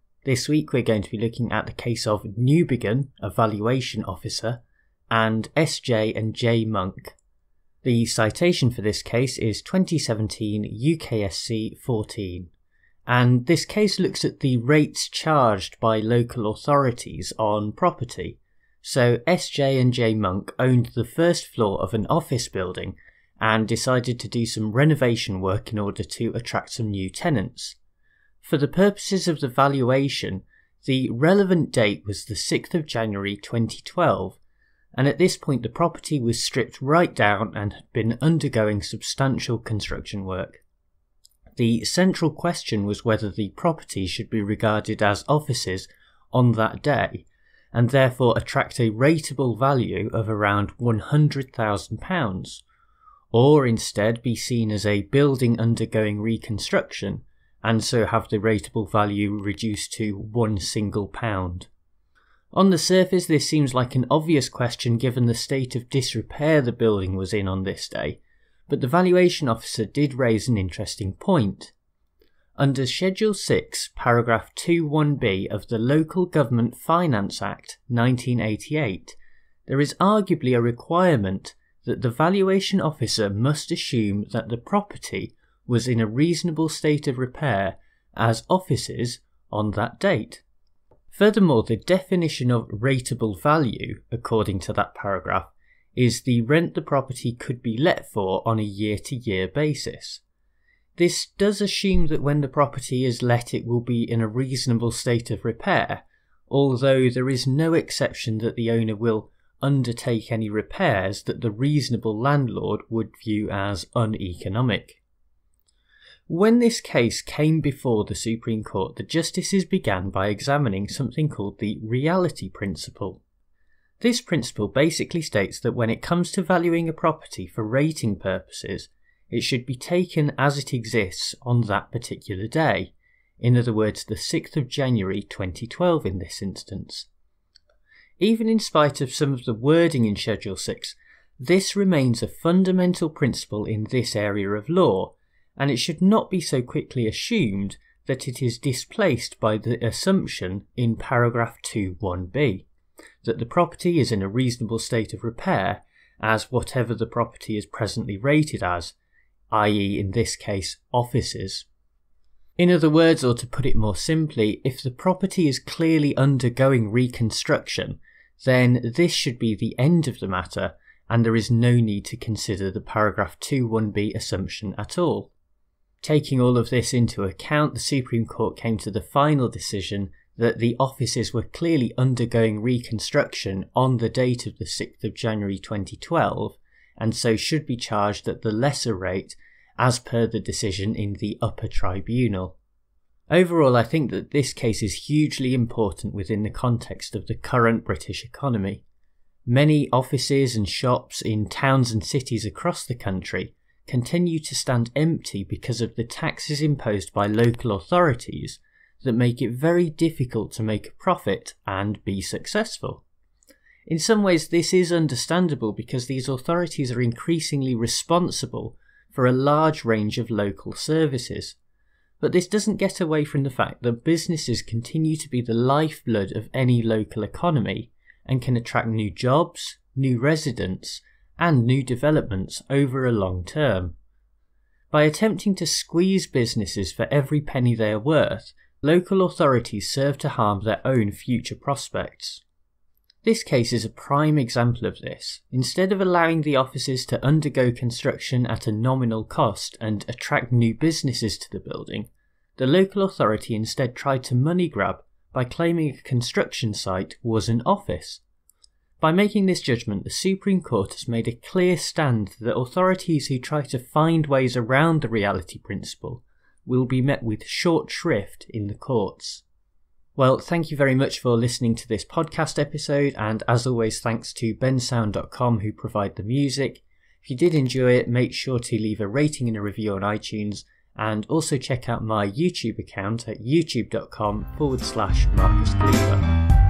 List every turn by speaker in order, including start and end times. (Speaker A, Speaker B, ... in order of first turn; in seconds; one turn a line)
Speaker A: 0.2-7.1
Speaker A: 7.8-12.5
Speaker A: 13.1-27.8
Speaker A: 28.4-34.4
Speaker A: 34.9-40.6
Speaker A: 41.6-52.6
Speaker A: 53.3-61.7
Speaker A: 62.5-71.7
Speaker A: 72.6-79.2
Speaker A: 79.7-90.4
Speaker A: 91.1-100.2
Speaker A: 101.0-115.0
Speaker A: 116.3-123.2
Speaker A: 124.0-137.1
Speaker A: 138.2-152.7
Speaker A: 153.2-158.9
Speaker A: 159.5-161.7
Speaker A: 162.6-175.3
Speaker A: 176.0-192.6
Speaker A: 193.3-198.8
Speaker A: 199.5-213.0
Speaker A: 213.9-221.6
Speaker A: 222.2-233.9
Speaker A: 234.9-242.4
Speaker A: 243.2-258.2
Speaker A: 259.0-269.4
Speaker A: 270.1-286.2